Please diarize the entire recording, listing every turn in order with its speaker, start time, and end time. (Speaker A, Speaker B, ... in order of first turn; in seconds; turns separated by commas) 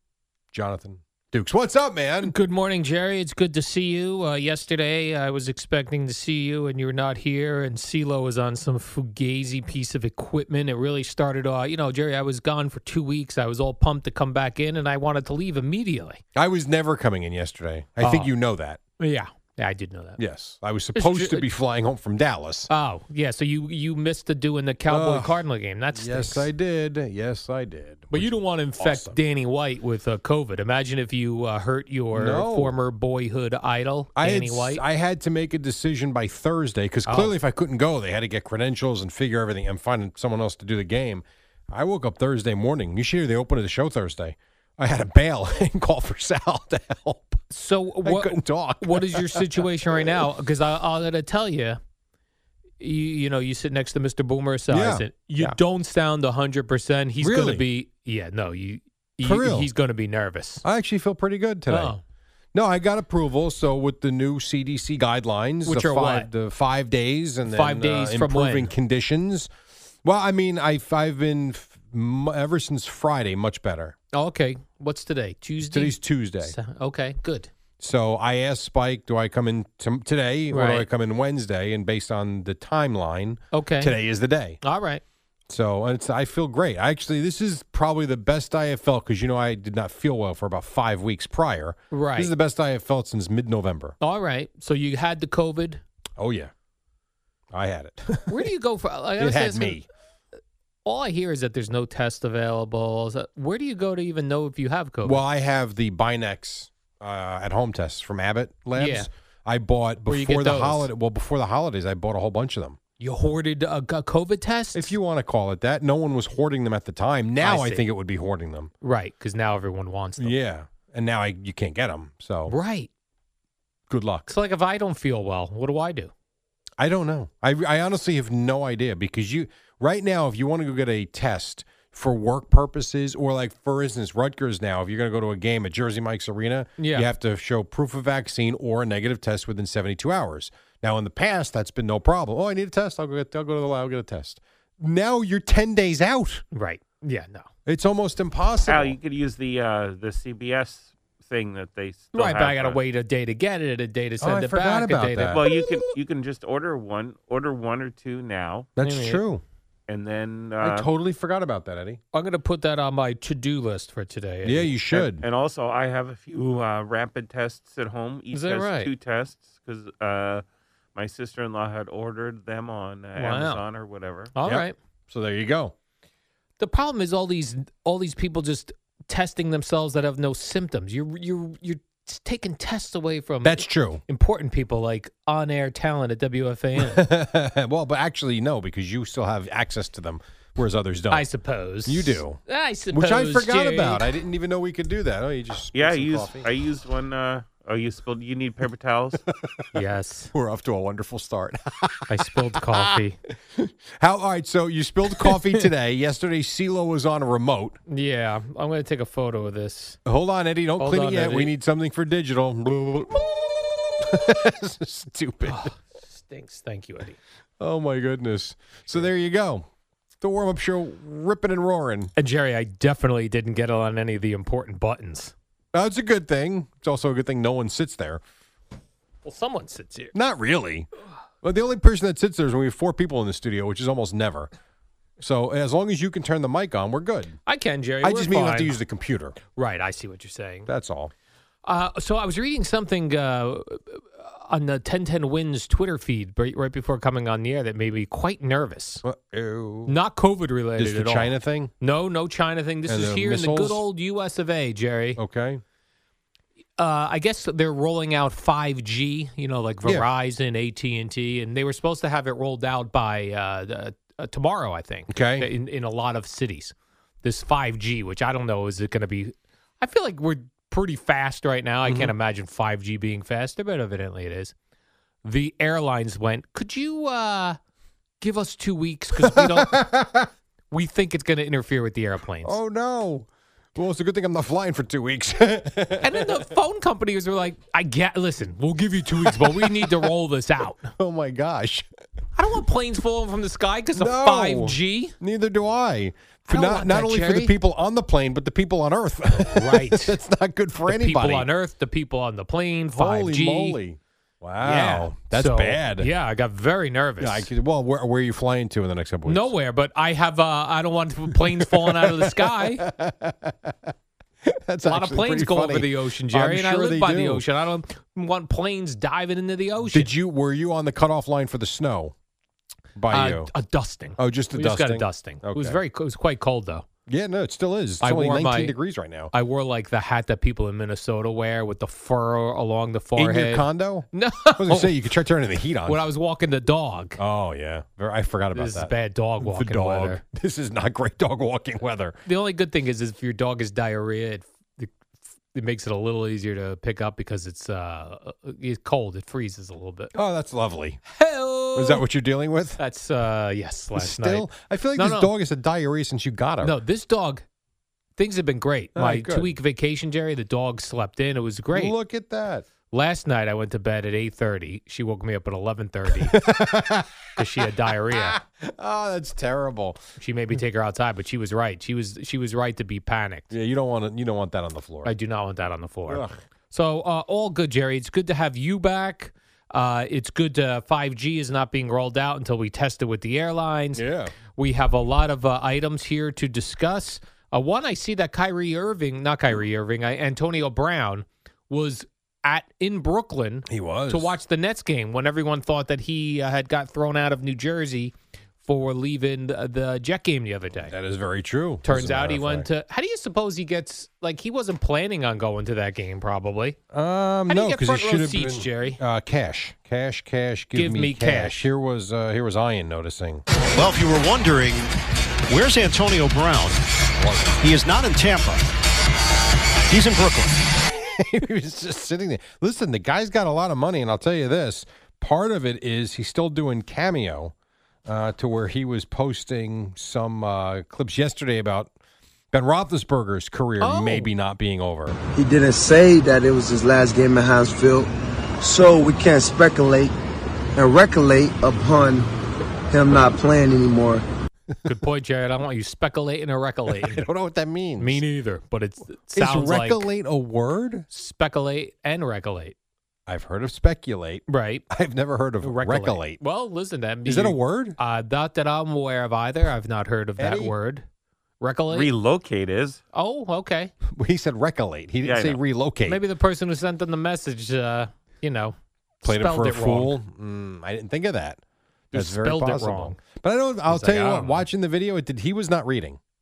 Speaker A: 0.5-2.3, Speaker B: 2.2-16.2, Speaker A: 16.4-18.8, Speaker B: 18.0-18.3, Speaker B: 19.0-20.2, Speaker A: 20.2-22.7, Speaker B: 20.9-21.5, Speaker B: 22.7-26.5, Speaker A: 24.9-25.4, Speaker A: 25.9-29.2, Speaker B: 28.1-34.8, Speaker A: 32.1-32.7, Speaker A: 34.2-47.4, Speaker B: 37.1-37.3, Speaker B: 47.5-51.8, Speaker A: 48.0-50.1, Speaker B: 52.8-60.6, Speaker A: 54.7-55.6, Speaker A: 57.2-57.6, Speaker A: 59.2-59.7, Speaker A: 60.6-61.9, Speaker B: 61.7-62.0, Speaker A: 62.5-69.5, Speaker B: 65.7-66.3, Speaker B: 67.5-68.7, Speaker A: 70.0-74.0, Speaker B: 74.1-77.5, Speaker A: 75.7-76.6, Speaker A: 77.8-84.6, Speaker B: 80.5-80.9, Speaker B: 83.5-84.0, Speaker B: 84.6-85.0, Speaker A: 85.5-94.0, Speaker B: 91.9-92.3, Speaker B: 94.0-95.8, Speaker A: 96.2-96.5, Speaker A: 97.5-98.5, Speaker B: 98.3-99.8, Speaker A: 99.2-99.9, Speaker B: 100.8-105.2, Speaker A: 105.0-112.8, Speaker B: 108.8-109.1, Speaker B: 110.1-110.9, Speaker B: 113.0-114.9, Speaker A: 114.7-118.7, Speaker B: 117.4-117.8, Speaker B: 118.8-120.4, Speaker A: 120.2-122.5, Speaker B: 122.5-122.9, Speaker A: 123.9-124.3, Speaker B: 124.3-126.1, Speaker A: 126.8-146.4, Speaker B: 136.8-137.1, Speaker B: 146.5-147.5, Speaker A: 147.7-149.0, Speaker C: 148.7-152.8, Speaker B: 152.1-155.5, Speaker A: 154.2-155.8, Speaker C: 155.3-158.7, Speaker A: 158.8-159.4, Speaker B: 158.8-159.2, Speaker C: 159.9-160.9, Speaker A: 160.6-162.0, Speaker B: 162.1-164.9, Speaker A: 164.4-165.2, Speaker C: 164.9-170.4, Speaker B: 168.3-168.9, Speaker C: 170.9-174.3, Speaker B: 173.2-173.6, Speaker B: 174.3-174.8, Speaker A: 174.4-175.7, Speaker B: 176.6-187.1, Speaker A: 183.4-184.0, Speaker A: 186.8-191.3, Speaker B: 191.1-194.1, Speaker A: 191.9-192.4, Speaker A: 192.9-196.5, Speaker C: 195.7-199.2, Speaker B: 199.7-200.3, Speaker A: 200.3-203.0, Speaker B: 202.1-203.2, Speaker A: 203.5-207.8, Speaker B: 205.2-205.6, Speaker B: 207.9-210.0, Speaker A: 210.1-215.7, Speaker B: 210.8-211.5, Speaker B: 215.4-217.2, Speaker A: 217.6-219.7, Speaker A: 220.2-222.1, Speaker B: 222.2-225.3, Speaker A: 225.7-228.2, Speaker B: 229.2-230.1, Speaker A: 230.1-230.9, Speaker A: 231.4-234.5, Speaker A: 235.2-237.4, Speaker B: 237.5-238.8, Speaker A: 238.0-239.4, Speaker B: 239.6-240.7, Speaker A: 240.7-241.1, Speaker B: 241.7-249.0, Speaker A: 249.0-250.0, Speaker B: 249.9-255.2, Speaker A: 250.8-251.7, Speaker A: 252.9-253.8, Speaker A: 255.2-255.6, Speaker B: 256.8-274.5, Speaker A: 265.1-265.5, Speaker A: 271.9-272.1, Speaker B: 275.2-277.6, Speaker B: 278.2-279.8, Speaker A: 279.2-280.3, Speaker B: 280.7-282.6, Speaker A: 282.4-286.4, Speaker B: 286.0-290.9, Speaker A: 289.2-290.1, Speaker A: 291.0-291.9, Speaker B: 292.4-295.1, Speaker A: 294.0-301.5, Speaker B: 296.5-297.5, Speaker B: 299.5-300.2, Speaker B: 300.9-303.8, Speaker A: 302.9-306.1, Speaker B: 304.6-307.5, Speaker A: 307.2-309.5, Speaker B: 309.3-312.9, Speaker A: 311.3-313.9, Speaker A: 314.4-317.4, Speaker B: 314.9-320.1, Speaker A: 319.8-322.1, Speaker A: 322.9-323.5, Speaker B: 323.1-326.9, Speaker A: 324.2-325.8, Speaker A: 327.1-329.3, Speaker B: 328.0-328.8, Speaker B: 329.3-334.9, Speaker A: 333.2-336.0, Speaker B: 335.9-337.2, Speaker A: 337.2-342.2, Speaker B: 338.5-340.2, Speaker B: 342.3-344.9, Speaker B: 345.5-350.1, Speaker A: 350.1-351.0, Speaker B: 351.1-352.0, Speaker A: 351.8-352.8, Speaker B: 352.8-355.3, Speaker A: 353.9-356.8, Speaker B: 356.6-357.4, Speaker B: 358.2-361.9, Speaker A: 358.9-359.5, Speaker A: 361.7-362.7, Speaker B: 362.9-366.4, Speaker A: 366.1-367.3, Speaker B: 367.4-368.4, Speaker A: 368.1-370.0, Speaker B: 370.2-373.5, Speaker A: 373.5-375.1, Speaker B: 375.1-384.0, Speaker A: 376.1-376.4, Speaker A: 383.9-384.3, Speaker B: 384.6-400.9, Speaker A: 393.7-394.3, Speaker A: 400.9-402.7, Speaker B: 401.9-406.8, Speaker A: 406.9-413.4, Speaker B: 407.5-409.0, Speaker B: 410.8-411.7, Speaker D: 413.7-414.9, Speaker D: 415.5-416.8, Speaker A: 417.2-417.6, Speaker D: 417.6-418.6, Speaker D: 419.9-420.6, Speaker A: 420.9-427.5, Speaker A: 428.1-431.9, Speaker A: 432.5-435.2, Speaker B: 433.8-434.3, Speaker E: 435.4-440.1, Speaker E: 440.8-442.3, Speaker E: 442.9-444.2, Speaker B: 444.9-447.2, Speaker A: 446.9-448.2, Speaker B: 448.0-450.1, Speaker A: 449.4-451.1, Speaker B: 451.1-452.8, Speaker A: 453.3-456.4, Speaker B: 454.5-454.8, Speaker B: 455.6-461.1, Speaker A: 457.2-458.0, Speaker A: 460.4-460.7, Speaker B: 461.6-462.1, Speaker C: 461.9-463.0, Speaker B: 463.1-463.9, Speaker A: 464.1-466.2, Speaker C: 465.2-465.6, Speaker B: 466.1-470.2, Speaker A: 469.2-471.6, Speaker A: 472.1-476.2, Speaker B: 472.1-473.2, Speaker B: 473.9-474.6